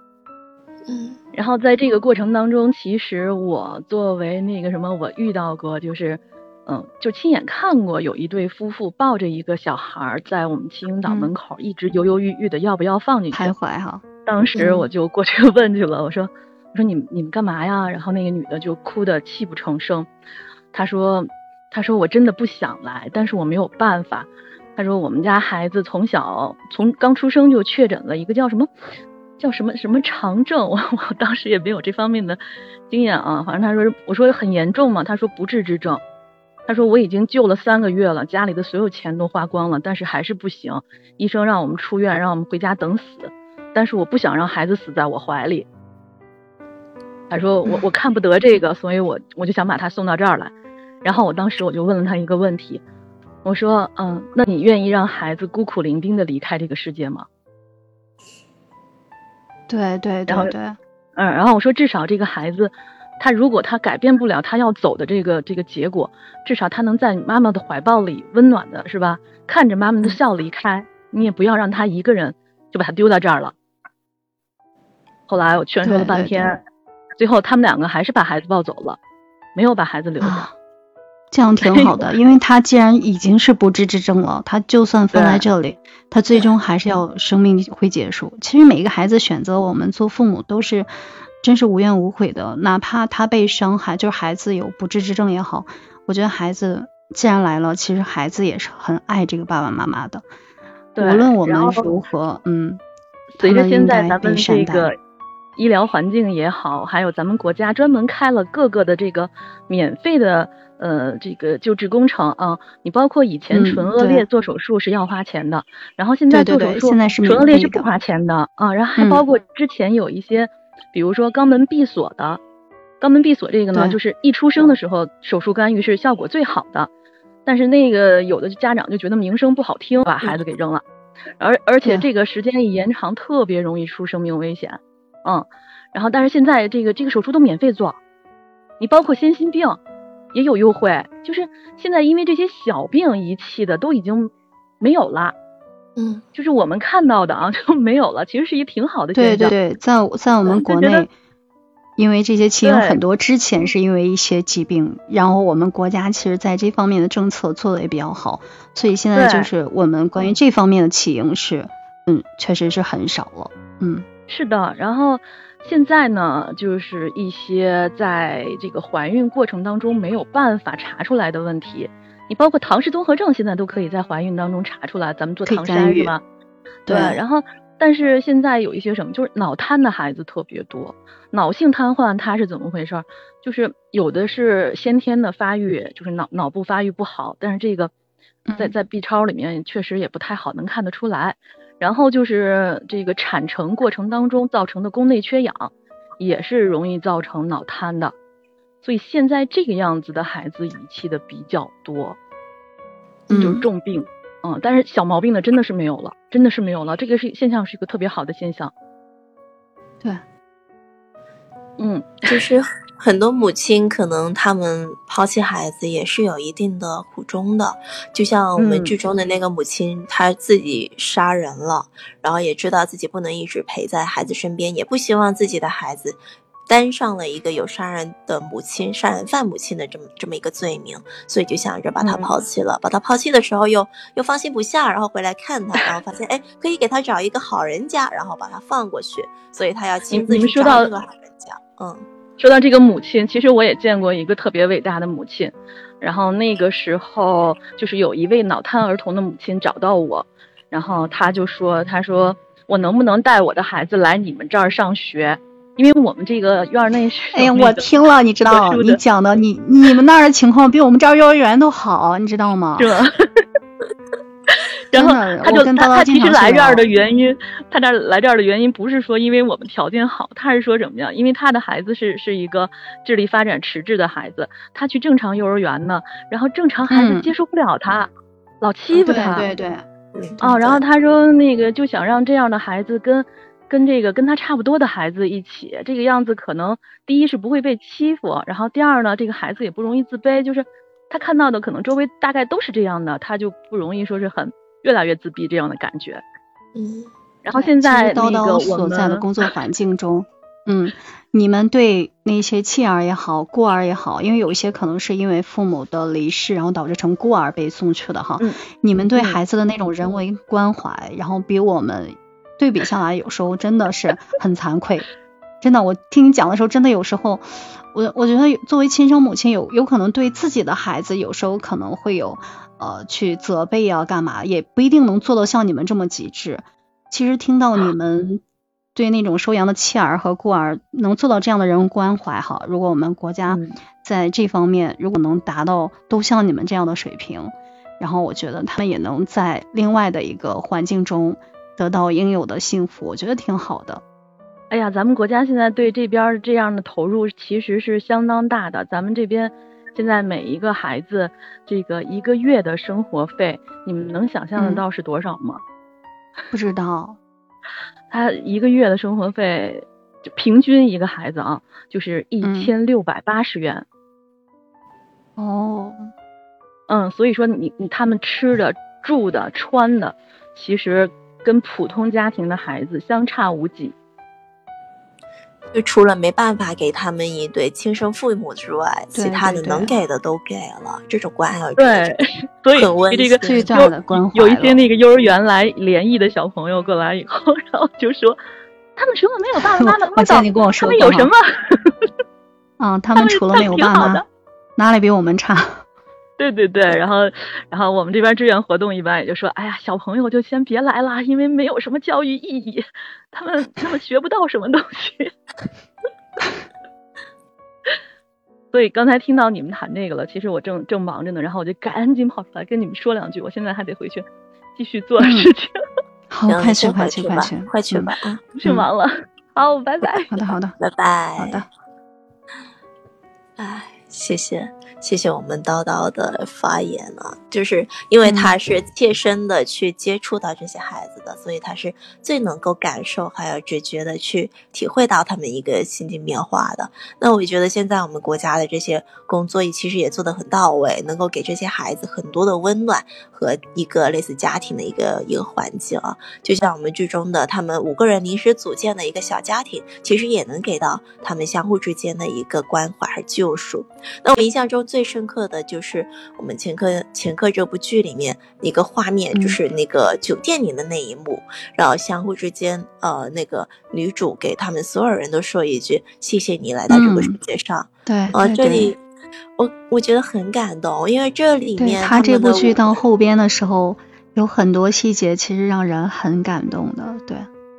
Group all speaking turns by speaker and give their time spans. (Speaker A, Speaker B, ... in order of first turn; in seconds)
Speaker A: 0.9-1.2, 14.6-14.9, 146.0-146.2, 212.3-242.1, 280.1-280.8, 296.7-297.1, 375.7-382.1, 382.7-383.7, 416.5-418.5, 420.8-421.6, 423.6-469.0, 469.6-473.0
Speaker B: 1.3-13.5, 14.2-20.1, 20.7-28.7, 29.4-32.4, 32.9-36.0, 36.7-45.7, 47.3-50.5, 51.0-52.8, 53.4-57.2, 60.3-60.5, 61.1-73.5, 75.3-76.6, 77.2-79.0, 79.5-80.5, 81.6-81.9, 85.1-85.4, 101.0-101.8, 103.4-104.9, 105.6-122.4, 123.0-126.9, 127.5-130.8, 131.4-138.0, 138.8-139.8, 140.3-145.3, 146.3-149.5, 150.5-151.1, 152.6-153.0, 159.1-159.5, 164.3-176.2, 176.9-187.9, 188.6-198.1, 198.8-202.2, 203.3-208.7, 211.8-212.4, 218.6-219.0, 232.0-232.3, 240.1-240.9, 242.4-257.9, 258.5-259.0, 262.8-263.4, 264.9-278.1, 278.6-279.5, 280.4-296.2, 297.4-299.2, 344.7-355.6, 358.1-363.8, 366.9-373.9, 381.8-388.4, 388.9-392.1, 393.1-394.2, 396.4-405.3, 408.7-414.2, 414.8-415.8, 418.6-420.3
Speaker C: 11.1-11.3, 13.3-14.0, 59.7-60.8, 75.8-76.5, 81.3-90.9, 91.4-100.2, 101.0-102.8, 103.4-104.9, 113.5-114.2, 116.3-117.9, 119.0-119.2, 149.1-151.1, 152.0-164.1, 175.4-176.1, 176.9-177.2, 188.5-188.7, 203.3-203.7, 257.3-262.9, 264.9-266.8, 276.9-277.3, 278.9-279.8, 297.6-315.1, 315.6-328.4, 328.9-344.0, 354.6-354.8, 356.5-357.2, 362.4-362.7, 365.4-366.1, 379.1-379.9, 383.4-384.8, 389.6-391.3, 392.8-394.2, 394.8-395.8, 415.2-415.5, 416.3-418.9, 420.2-420.8, 421.4-421.7, 428.2-428.5, 459.3-459.6, 466.9-467.4, 468.1-468.9, 471.8-477.5